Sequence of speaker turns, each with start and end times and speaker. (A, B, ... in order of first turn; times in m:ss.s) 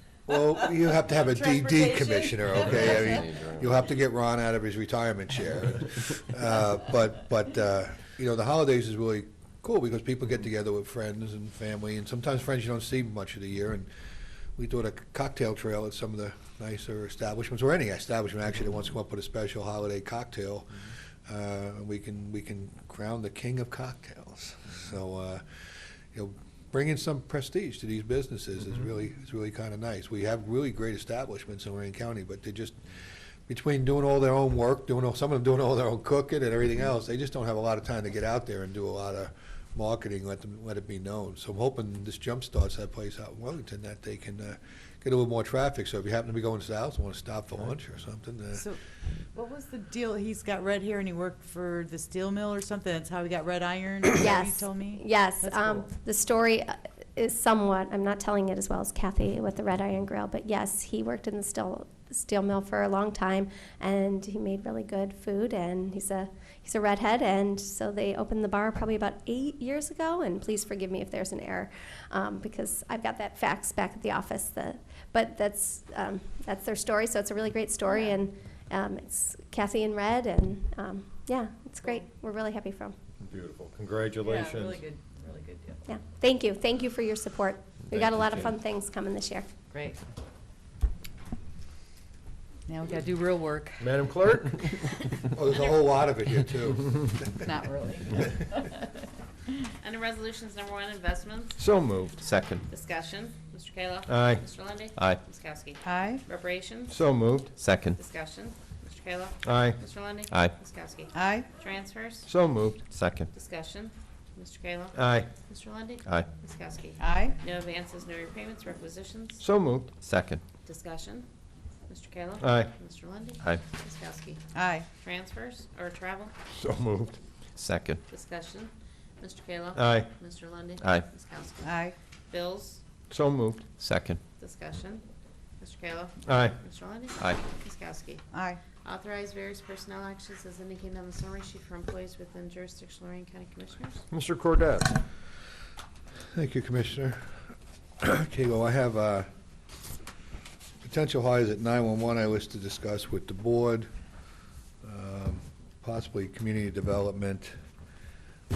0:00.3-0:13.9 A
0:00.6-0:03.2 B
0:02.6-0:03.7 C
0:14.6-0:20.7 A
0:21.3-0:25.4 A
0:26.1-0:32.8 A
0:33.5-0:48.6 A
0:48.5-0:48.8 B
0:49.3-0:55.8 B
0:54.2-1:22.9 D
1:23.2-1:24.8 E
1:24.2-1:25.9 B
1:25.8-1:29.5 D
1:29.7-1:30.0 B
1:32.7-1:34.0 B
1:33.8-1:34.7 E
1:35.3-1:37.1 A
1:37.3-1:38.9 B
1:39.8-1:41.6 F
1:41.6-1:42.1 E
1:42.2-1:42.6 C
1:42.7-1:47.0 F
1:44.1-1:44.4 E
1:44.9-1:45.2 C
1:45.8-1:46.2 B
1:46.9-1:47.5 E
1:47.6-1:48.0 C
1:48.0-1:52.3 F
1:49.4-1:49.8 E
1:50.3-1:50.5 C
1:51.1-1:51.5 B
1:52.2-1:52.8 E
1:52.9-1:53.3 C
1:53.3-1:59.4 F
1:54.9-1:55.3 E
1:57.0-1:57.4 B
1:59.4-1:59.9 E
2:00.0-2:00.4 C
2:00.6-2:01.3 F
2:01.9-2:04.4 F
2:02.4-2:02.7 E
2:04.5-2:04.9 B
2:05.0-2:06.3 F
2:06.5-2:07.2 E
2:07.6-2:08.0 C
2:08.1-2:12.8 F
2:09.7-2:10.1 E
2:10.8-2:11.0 C
2:11.6-2:11.9 B
2:13.1-2:13.6 E
2:13.8-2:14.2 C
2:14.4-2:15.0 F
2:15.6-2:18.2 F
2:16.2-2:16.6 E
2:18.3-2:18.6 B
2:18.8-2:24.0 F
2:24.1-2:25.0 E
2:26.3-2:27.2 A
2:28.0-2:29.3 A
2:30.8-2:33.9 A
2:34.8-2:37.5 A